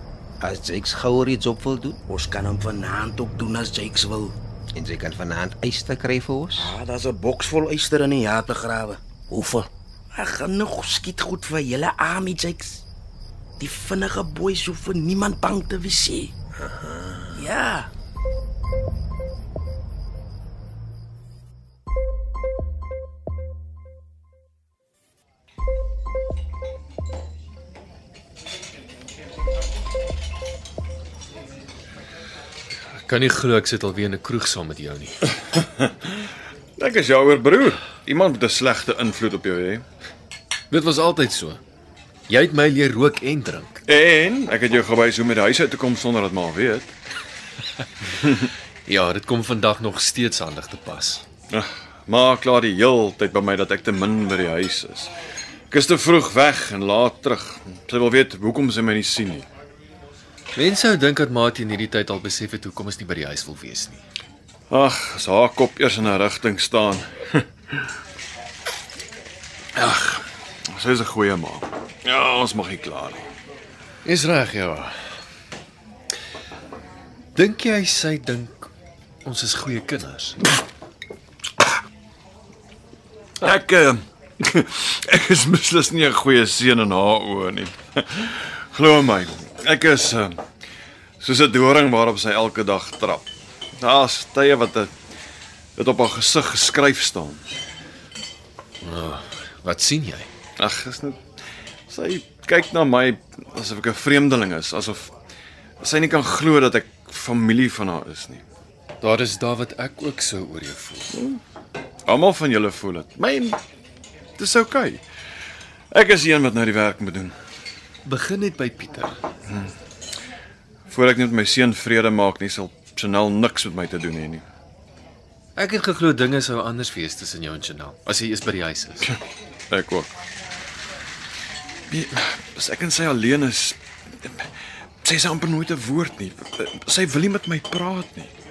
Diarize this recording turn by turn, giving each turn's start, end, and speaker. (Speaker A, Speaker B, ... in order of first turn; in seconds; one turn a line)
Speaker A: 0.4-2.0
Speaker B: 2.1-4.3
Speaker A: 4.7-6.7
Speaker B: 6.6-9.0
Speaker A: 9.3-9.7
Speaker B: 10.1-12.8
Speaker B: 13.6-16.3
Speaker A: 16.6-17.5
Speaker B: 17.3-17.9
Speaker C: 33.0-35.2
Speaker D: 35.8-39.8
Speaker C: 40.7-41.6
Speaker C: 42.3-43.8
Speaker D: 43.9-46.9
Speaker C: 48.9-51.2
Speaker D: 51.5-55.1
Speaker D: 55.7-59.5
Speaker C: 60.5-64.0
Speaker D: 64.7-67.8
Speaker D: 69.7-73.3
Speaker C: 74.0-74.9
Speaker C: 77.3-78.7
Speaker C: 79.2-80.4
Speaker D: 83.4-90.4
Speaker D: 91.2-94.9
Speaker D: 95.8-97.4
Speaker C: 98.8-100.3
Speaker D: 100.6-101.2
Speaker D: 101.9-105.1
Speaker D: 105.8-108.4
Speaker C: 109.0-111.1
Speaker D: 111.1-111.4
Speaker D: 112.0-113.6
Speaker D: 114.4-115.0
Speaker D: 115.9-117.3
Speaker C: 118.0-119.2
Speaker D: 119.5-119.7
Speaker D: 120.9-124.4
Speaker C: 125.5-129.1
Speaker D: 129.7-130.1
Speaker D: 131.9-134.5
Speaker D: 135.0-138.3